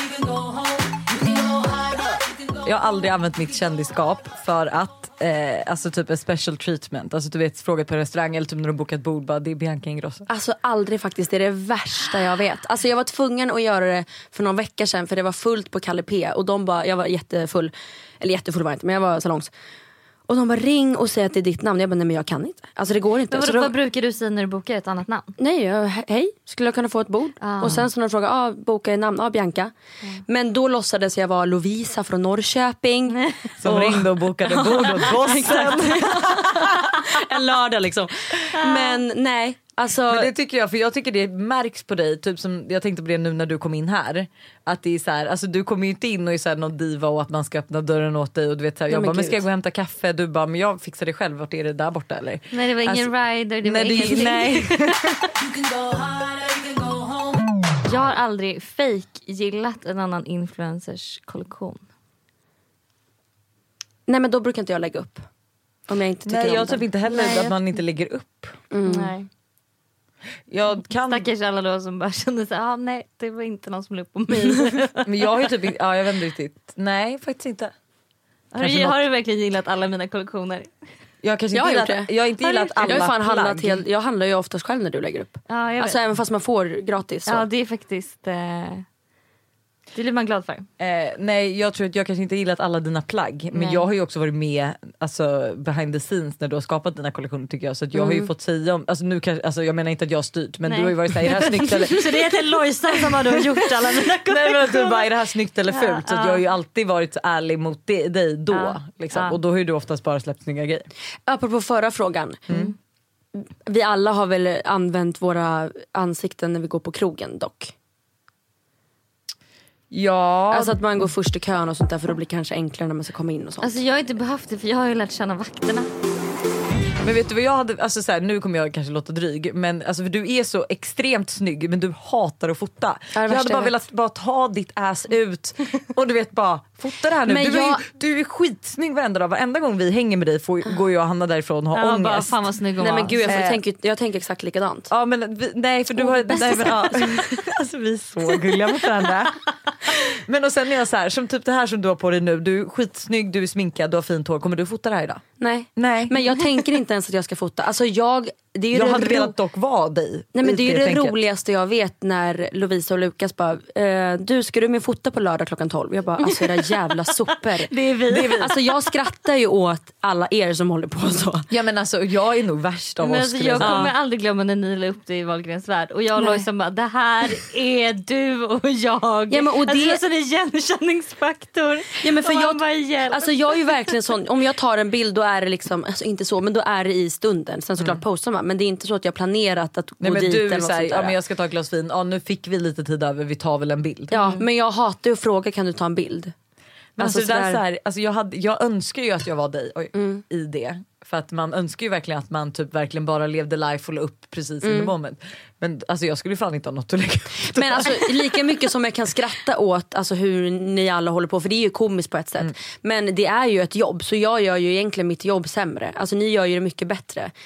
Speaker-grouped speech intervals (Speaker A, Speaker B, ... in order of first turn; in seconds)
Speaker A: 2.6-10.3, 33.6-37.0, 40.1-53.1, 53.6-55.3, 66.3-68.6, 70.5-71.3, 75.0-77.7, 78.6-79.0, 81.2-83.8, 90.8-102.3, 103.3-110.9, 119.9-120.8, 127.0-142.3, 143.3-143.6, 144.9-155.2, 155.8-156.2, 158.7-161.2, 168.1-168.6, 171.5-173.9, 190.0-194.3, 197.0-208.3
Speaker B: 10.3-19.5, 20.3-23.7, 25.4-29.7, 30.3-40.3, 48.9-49.4, 64.1-65.2, 65.9-66.9, 68.7-69.1, 81.5-82.1, 82.8-87.5, 98.0-98.3, 111.3-112.5, 113.3-117.7, 120.5-123.8, 133.1-133.8, 137.3-137.8, 142.8-144.9, 146.0-147.2, 155.4-159.3, 160.3-171.5, 173.6-173.9, 176.2-176.4, 179.3-180.0, 182.0-191.2, 194.1-196.3, 197.0-197.6, 199.9-200.2, 204.6-204.9, 207.5-217.3
Speaker C: 23.3-25.4, 27.4-27.8, 33.1-33.5, 38.6-39.0, 52.5-55.3, 57.8-61.8, 67.1-67.6, 68.8-69.3, 71.1-75.3, 78.5-80.7, 82.4-83.1, 85.5-86.0, 87.3-88.8, 90.0-90.7, 93.5-93.8, 100.7-105.1, 105.7-106.4, 108.5-109.4, 123.6-125.9, 141.7-143.3, 166.3-166.7, 167.5-168.7, 173.0-183.9